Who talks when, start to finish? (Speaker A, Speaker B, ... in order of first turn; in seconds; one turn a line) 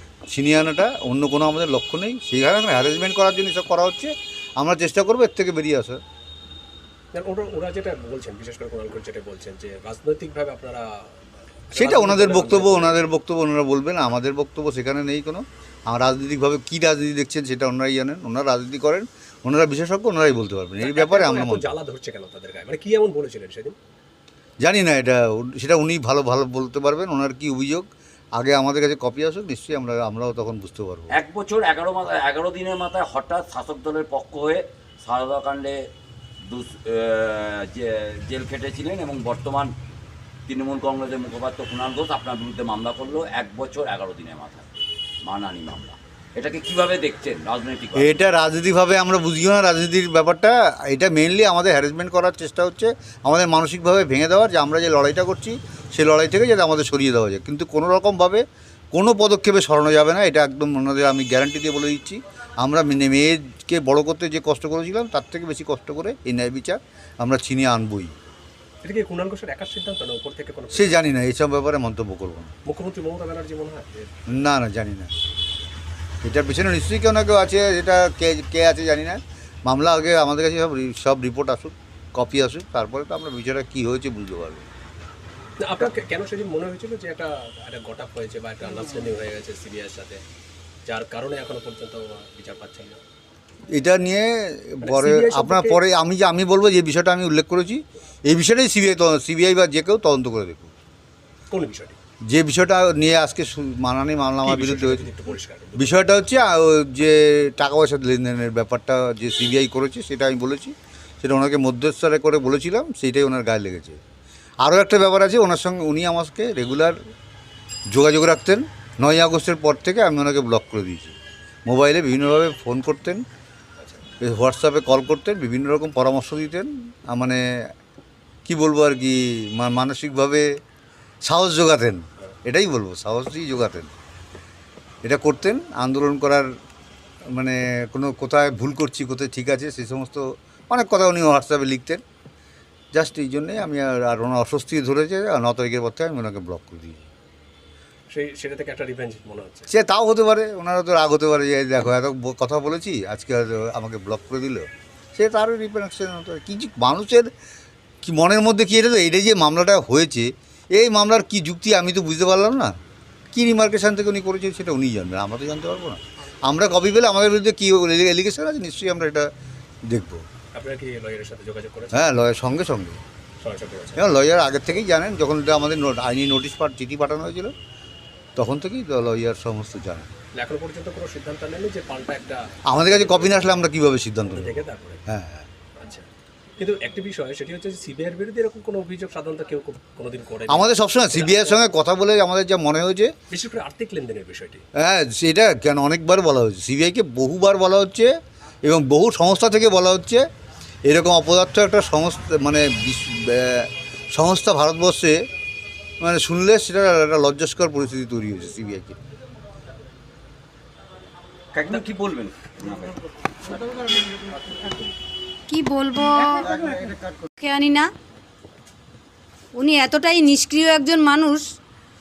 Speaker A: 0.3-6.0
Speaker B: 7.1-13.0
Speaker A: 11.7-21.6
Speaker B: 20.8-23.8
Speaker A: 24.6-31.1
Speaker C: 31.1-35.8
Speaker C: 36.5-39.7
Speaker C: 40.5-44.7
Speaker C: 45.2-48.2
Speaker A: 47.9-68.1
Speaker B: 68.8-71.0
Speaker A: 70.7-72.5
Speaker B: 72.6-74.1
Speaker A: 74.3-75.1
Speaker A: 76.2-84.7
Speaker B: 85.6-90.2
Speaker B: 90.8-93.0
Speaker A: 93.7-100.7
Speaker B: 94.8-95.8
Speaker B: 101.5-102.0
Speaker A: 102.3-105.1
Speaker B: 104.4-106.0
Speaker A: 105.8-114.0
Speaker A: 114.6-117.0
Speaker A: 117.9-123.2
Speaker A: 124.2-127.7
Speaker A: 128.4-130.4
Speaker A: 131.2-133.9
Speaker A: 135.0-136.5
Speaker A: 137.3-142.0
Speaker A: 142.9-147.1
Speaker B: 148.1-149.7
Speaker A: 149.7-157.3
Speaker A: 158.0-162.8
Speaker A: 163.3-169.3
Speaker A: 169.9-170.2
Speaker B: 170.5-172.0
Speaker A: 171.9-173.0
Speaker B: 173.4-174.0
Speaker A: 174.0-177.5
Speaker A: 178.4-180.1
Speaker B: 180.3-183.6
Speaker A: 182.7-185.5
Speaker B: 184.2-185.0
Speaker B: 185.8-186.0
Speaker B: 186.6-191.6
Speaker A: 190.5-193.1
Speaker B: 193.3-194.6
Speaker A: 194.8-198.1
Speaker A: 198.6-200.2
Speaker A: 200.8-205.2
Speaker A: 206.0-209.0
Speaker C: 211.5-213.9
Speaker D: 215.5-216.5
Speaker A: 216.5-216.9
Speaker D: 217.4-217.9
Speaker D: 219.6-221.4